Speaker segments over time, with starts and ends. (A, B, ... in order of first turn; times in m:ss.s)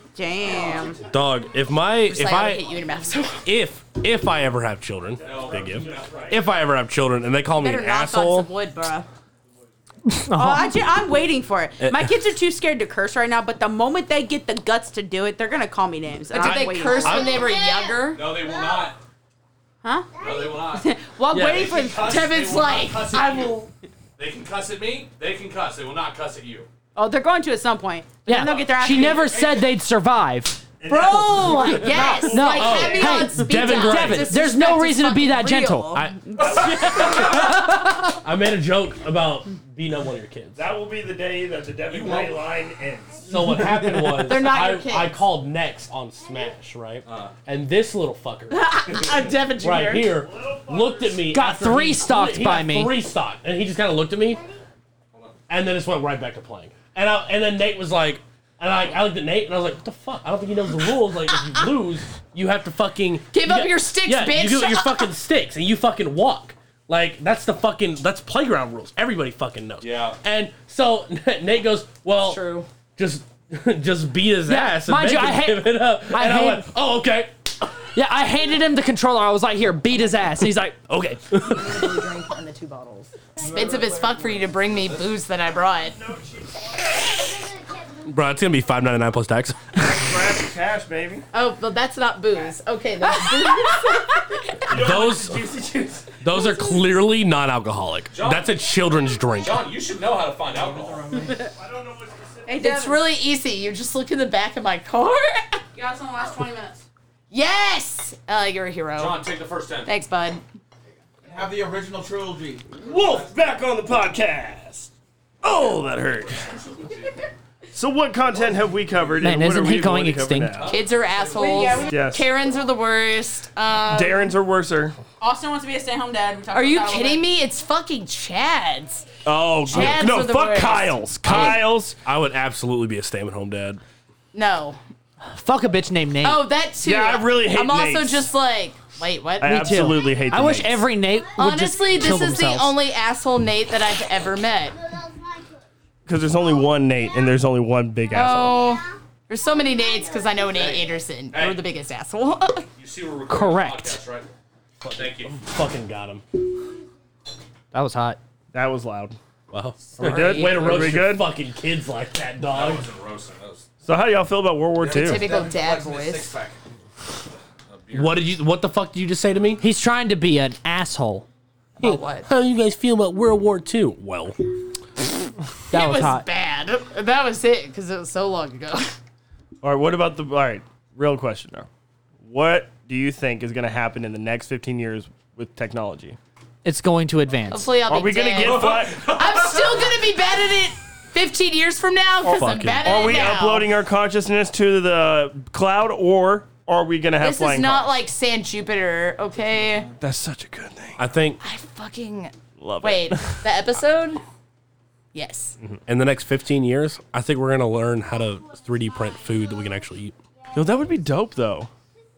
0:00.2-0:01.0 A
0:01.1-0:02.6 B
0:02.1-0:03.4 C
0:03.4-0:08.5 B
0:05.2-0:06.4 D
0:07.6-0:09.1 C
0:10.1-0:10.8 E
0:10.4-0:17.3 A
0:11.8-0:12.1 B
0:16.3-0:18.2 C
0:16.4-0:17.5 B
0:18.1-0:19.0 D
0:19.8-0:22.2 A
0:20.2-0:26.7 D
0:21.3-0:21.7 B
0:22.0-0:23.6 C
0:27.0-0:29.4 A
0:28.2-0:30.6 E
0:29.2-0:29.6 D
0:30.8-0:33.1 F
0:30.9-0:36.0 C
0:32.2-0:36.0 E
0:32.5-0:34.4 B
0:35.9-0:40.6 B
0:36.3-0:36.6 A
0:36.4-0:37.5 F
0:36.4-0:37.3 D
0:36.7-0:38.1 E
0:40.6-0:43.6 F
0:41.9-0:42.4 D
0:43.3-0:54.4 B
0:44.2-0:45.2 C
0:47.0-0:47.3 D
0:48.5-0:50.1 C
0:50.2-0:51.2 F
0:51.3-0:53.0 E
0:55.5-1:12.4 B
1:03.3-1:05.1 C
1:09.8-1:10.2 D
1:12.2-1:12.7 C
1:13.0-1:17.3 B
1:14.5-1:16.7 E
1:18.0-1:21.0 E
1:20.9-1:21.8 B
1:21.4-1:26.0 C
1:26.0-1:26.5 F
1:28.0-1:30.1 B
1:29.8-1:31.2 F
1:31.3-1:34.7 C
1:34.7-1:36.2 F
1:34.7-1:35.5 B
1:36.2-1:39.7 B
1:38.1-1:38.5 D
1:39.4-1:41.3 D
1:41.6-1:42.5 F
1:42.5-1:43.0 A
1:42.5-1:45.6 C
1:45.8-1:46.8 A
1:47.3-1:49.2 C
1:49.0-1:49.9 D
1:49.8-1:50.4 C
1:51.2-1:52.8 G
1:52.8-1:54.9 F
1:55.4-1:56.5 F
1:57.7-2:00.7 F
1:59.2-2:00.6 E
2:00.5-2:00.8 D
2:00.6-2:04.2 C
2:01.4-2:02.0 A
2:01.9-2:02.2 F
2:03.8-2:05.0 F
2:05.2-2:07.2 A
2:06.5-2:09.1 C
2:09.2-2:12.0 F
2:09.7-2:11.6 C
2:09.7-2:10.0 B
2:11.3-2:11.5 E
2:11.3-2:13.8 B
2:14.3-2:14.8 C
2:15.2-2:16.4 E
2:16.2-2:19.8 C
2:16.8-2:18.3 F
2:19.4-2:20.8 F
2:19.4-2:22.8 E
2:21.4-2:24.8 C
2:26.1-2:28.6 F
2:28.1-2:32.7 C
2:30.5-2:31.6 D
2:32.8-2:34.3 D
2:33.3-2:34.0 E
2:34.8-2:35.4 D
2:34.8-2:36.2 B
2:37.7-2:38.2 E
2:38.5-2:39.2 F
2:39.5-2:42.9 B
2:39.9-2:40.7 C
2:40.0-2:41.2 F
2:42.5-2:43.7 D
2:43.8-2:45.2 F
2:44.9-2:46.5 G
2:44.9-2:46.3 C
2:45.8-2:46.4 D
2:47.7-2:48.3 D
2:47.9-2:49.6 B
2:49.6-2:51.2 E
2:51.8-2:52.3 C
2:52.2-2:54.4 B
2:55.7-2:56.2 E
2:55.7-2:59.0 C
2:59.6-3:01.7 F
3:02.2-3:06.2 F
3:06.6-3:07.7 E
3:07.5-3:13.7 C
3:07.8-3:09.2 F
3:12.2-3:13.3 B
3:12.8-3:17.9 F
3:17.2-3:19.9 C
3:20.0-3:21.0 F
3:21.0-3:21.4 B
3:21.4-3:24.2 C
3:22.6-3:23.4 F
3:25.1-3:25.6 C
3:25.9-3:30.2 B
3:30.5-3:31.7 F